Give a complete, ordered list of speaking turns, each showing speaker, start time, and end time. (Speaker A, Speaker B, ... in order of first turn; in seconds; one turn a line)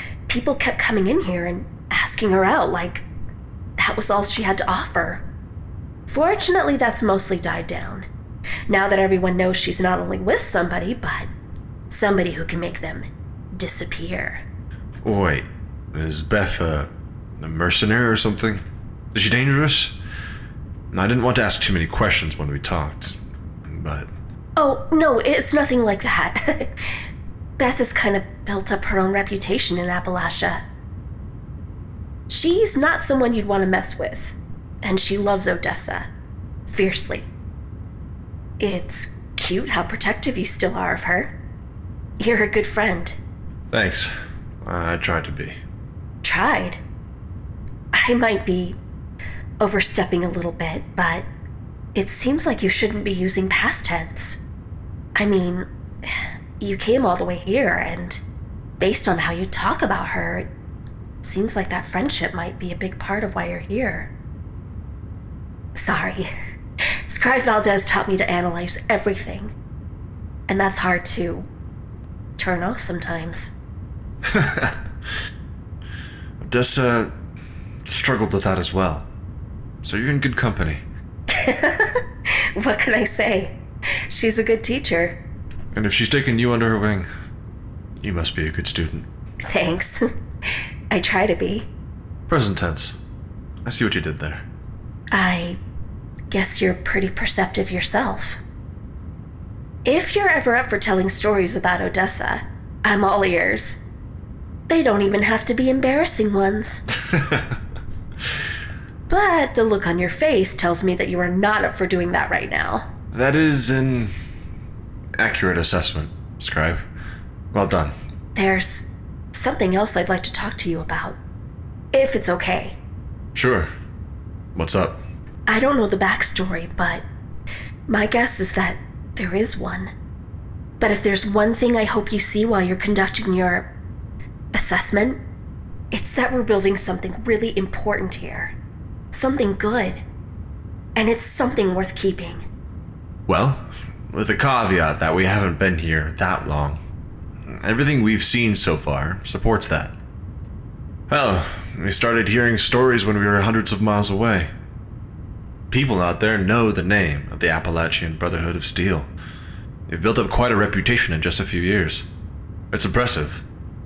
Speaker A: 0.3-3.0
Speaker A: 3.8-5.2
Speaker A: 6.1-8.1
Speaker A: 8.7-11.3
Speaker A: 11.9-14.4
Speaker B: 15.0-18.6
Speaker B: 19.1-19.9
Speaker B: 20.9-23.1
Speaker B: 23.7-24.1
Speaker A: 24.6-26.7
Speaker A: 27.6-30.6
Speaker A: 32.3-36.1
Speaker A: 36.7-37.3
Speaker A: 38.6-41.3
Speaker A: 42.2-43.2
Speaker B: 43.7-44.1
Speaker B: 44.6-45.6
Speaker A: 46.2-46.8
Speaker A: 47.9-48.8
Speaker A: 49.6-51.2
Speaker A: 51.9-54.4
Speaker A: 55.1-58.2
Speaker A: 58.8-60.5
Speaker A: 61.2-64.1
Speaker A: 65.7-66.3
Speaker A: 67.1-69.5
Speaker A: 70.5-71.5
Speaker A: 72.4-73.5
Speaker B: 74.3-74.8
Speaker B: 76.4-77.1
Speaker B: 77.8-79.1
Speaker B: 79.8-80.8
Speaker A: 81.3-83.6
Speaker A: 84.1-85.2
Speaker B: 85.7-87.1
Speaker B: 88.0-89.0
Speaker A: 89.5-90.1
Speaker A: 90.9-91.7
Speaker B: 92.3-93.0
Speaker B: 93.7-94.4
Speaker A: 95.1-95.6
Speaker A: 96.3-98.4
Speaker A: 99.8-103.8
Speaker A: 104.7-106.8
Speaker A: 109.1-112.9
Speaker B: 113.1-114.1
Speaker B: 115.2-116.8
Speaker B: 117.5-117.9
Speaker A: 118.3-121.2
Speaker A: 121.9-122.8
Speaker B: 123.3-123.7
Speaker B: 124.5-125.0
Speaker A: 125.5-127.0
Speaker A: 127.9-129.9
Speaker A: 130.8-133.7
Speaker A: 134.5-135.2
Speaker A: 135.9-138.5
Speaker A: 139.1-140.0
Speaker A: 140.9-142.4
Speaker B: 143.3-146.8
Speaker B: 147.4-149.9
Speaker B: 151.1-154.5
Speaker B: 155.7-159.1
Speaker B: 159.9-162.0
Speaker B: 162.7-163.4